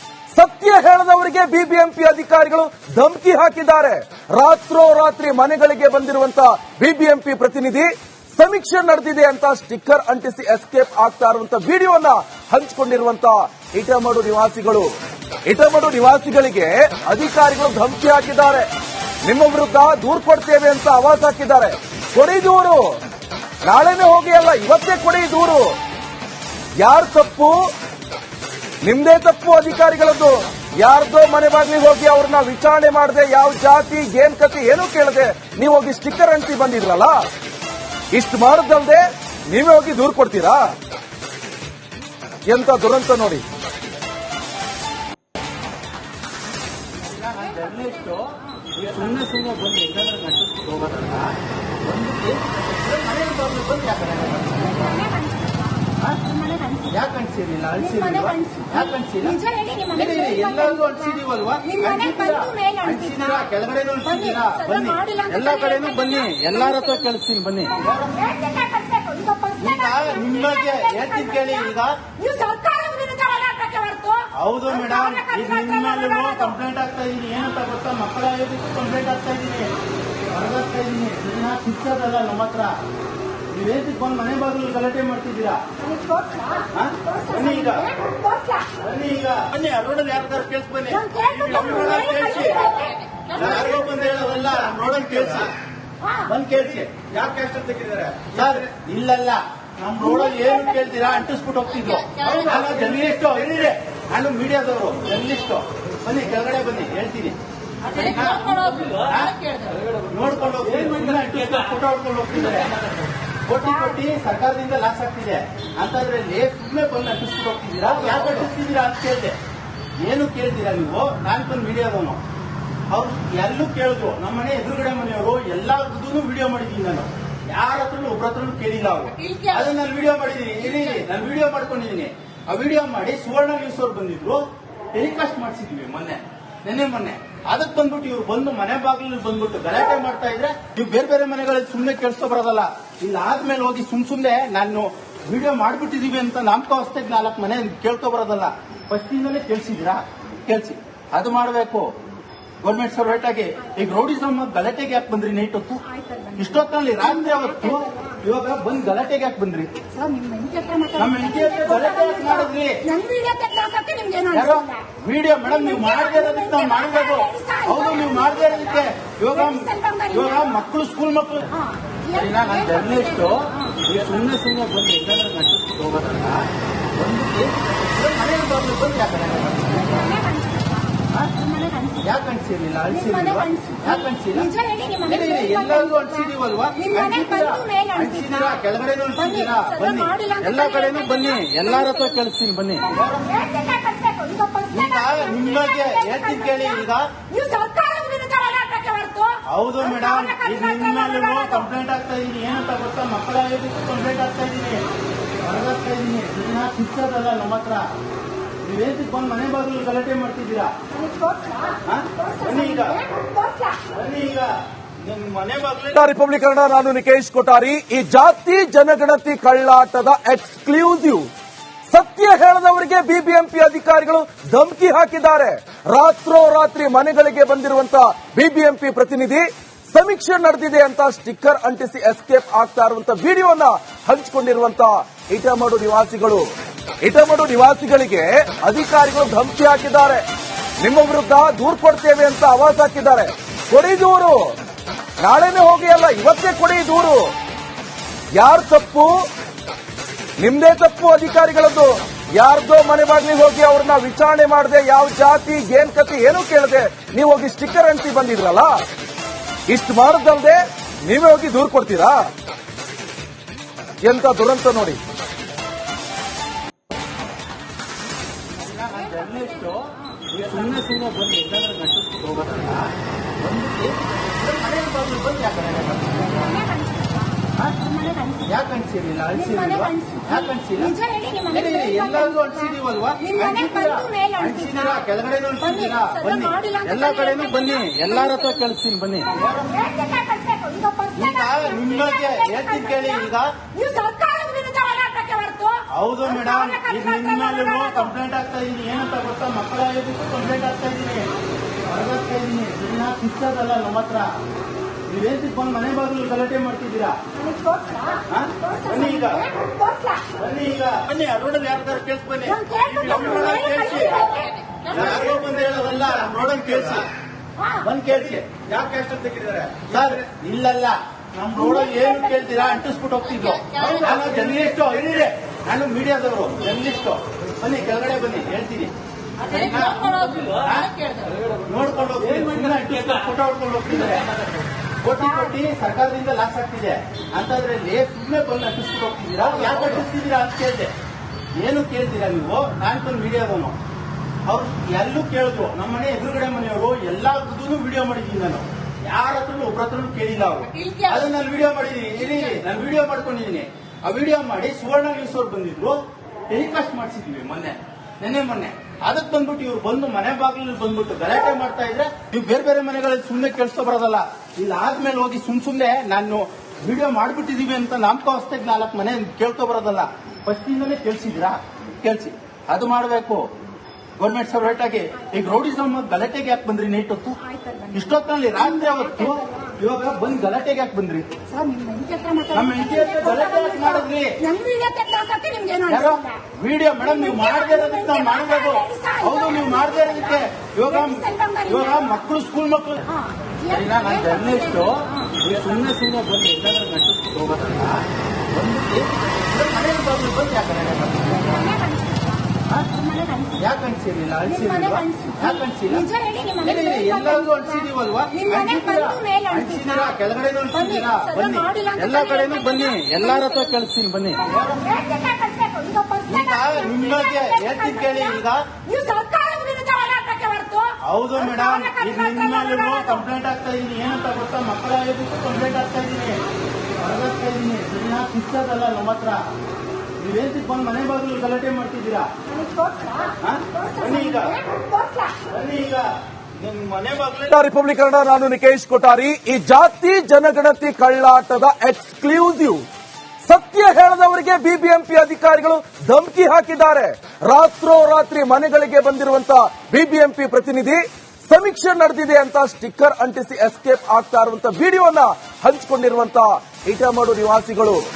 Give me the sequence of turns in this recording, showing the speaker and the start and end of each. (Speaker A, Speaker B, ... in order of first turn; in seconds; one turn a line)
Speaker A: 0.3-14.9
Speaker A: 15.5-18.7
Speaker A: 19.2-22.9
Speaker A: 23.6-25.7
Speaker A: 26.8-27.6
Speaker A: 28.8-37.2
Speaker A: 38.1-40.6
Speaker A: 42.5-43.4
Speaker B: 47.0-54.9
Speaker C: 54.9-56.8
Speaker B: 56.8-68.3
Speaker C: 58.2-58.8
Speaker C: 59.3-60.5
Speaker C: 61.8-62.9
Speaker C: 64.3-66.0
Speaker C: 68.4-69.7
Speaker B: 69.6-72.0
Speaker C: 72.2-74.3
Speaker B: 74.3-79.7
Speaker B: 80.3-82.8
Speaker B: 83.5-85.6
Speaker C: 86.0-86.6
Speaker B: 86.7-87.9
Speaker B: 88.7-95.5
Speaker C: 91.4-91.7
Speaker B: 96.2-109.4
Speaker B: 109.9-112.8
Speaker B: 113.5-119.4
Speaker B: 120.0-122.2
Speaker B: 122.9-151.9
Speaker B: 152.6-155.8
Speaker C: 156.1-156.4
Speaker B: 156.4-159.7
Speaker C: 159.9-161.8
Speaker B: 160.9-162.9
Speaker C: 162.9-164.6
Speaker B: 164.3-171.5
Speaker C: 165.7-168.3
Speaker C: 169.6-170.1
Speaker B: 172.1-180.1
Speaker C: 172.2-172.4
Speaker C: 180.0-181.9
Speaker B: 181.9-193.4
Speaker C: 183.4-183.8
Speaker C: 184.4-185.9
Speaker C: 186.9-188.1
Speaker C: 189.3-190.6
Speaker C: 193.4-194.7
Speaker B: 194.7-197.1
Speaker C: 197.3-199.4
Speaker B: 199.4-204.8
Speaker B: 205.4-207.9
Speaker B: 208.6-210.8
Speaker C: 211.2-211.7
Speaker B: 211.8-213.0
Speaker B: 213.8-216.0
Speaker A: 215.9-221.3
Speaker A: 221.9-236.5
Speaker A: 237.0-240.2
Speaker A: 240.8-244.4
Speaker A: 245.2-247.3
Speaker A: 248.3-249.1
Speaker A: 250.4-258.7
Speaker A: 259.7-262.2
Speaker A: 264.0-265.0
Speaker B: 268.6-276.4
Speaker C: 276.4-278.3
Speaker B: 277.6-289.8
Speaker C: 279.8-280.3
Speaker C: 280.9-282.1
Speaker C: 283.4-284.6
Speaker C: 285.9-287.5
Speaker C: 289.6-291.2
Speaker B: 291.1-293.5
Speaker C: 293.7-295.8
Speaker B: 295.9-301.3
Speaker B: 301.8-304.3
Speaker B: 305.1-307.2
Speaker C: 307.6-308.2
Speaker B: 308.3-309.5
Speaker B: 310.3-314.3
Speaker C: 312.8-313.7
Speaker B: 314.8-317.1
Speaker B: 317.8-334.3
Speaker B: 335.0-340.9
Speaker B: 341.6-343.8
Speaker B: 344.5-373.5
Speaker B: 374.2-377.4
Speaker C: 377.7-377.9
Speaker B: 377.9-381.3
Speaker C: 381.5-383.5
Speaker B: 382.5-384.4
Speaker C: 384.4-386.2
Speaker B: 385.9-393.1
Speaker C: 387.3-390.2
Speaker C: 391.2-391.7
Speaker B: 393.6-401.6
Speaker C: 393.8-394.5
Speaker C: 401.6-402.5
Speaker C: 403.1-403.4
Speaker B: 403.5-414.9
Speaker C: 404.9-405.4
Speaker C: 406.0-407.2
Speaker C: 408.5-409.6
Speaker C: 411.0-412.3
Speaker C: 414.9-416.4
Speaker B: 416.2-418.7
Speaker C: 418.9-420.9
Speaker B: 421.0-426.4
Speaker B: 427.0-429.4
Speaker B: 430.2-432.3
Speaker C: 432.6-433.3
Speaker B: 433.4-434.6
Speaker B: 435.4-437.5
Speaker A: 437.5-442.9
Speaker A: 443.4-458.0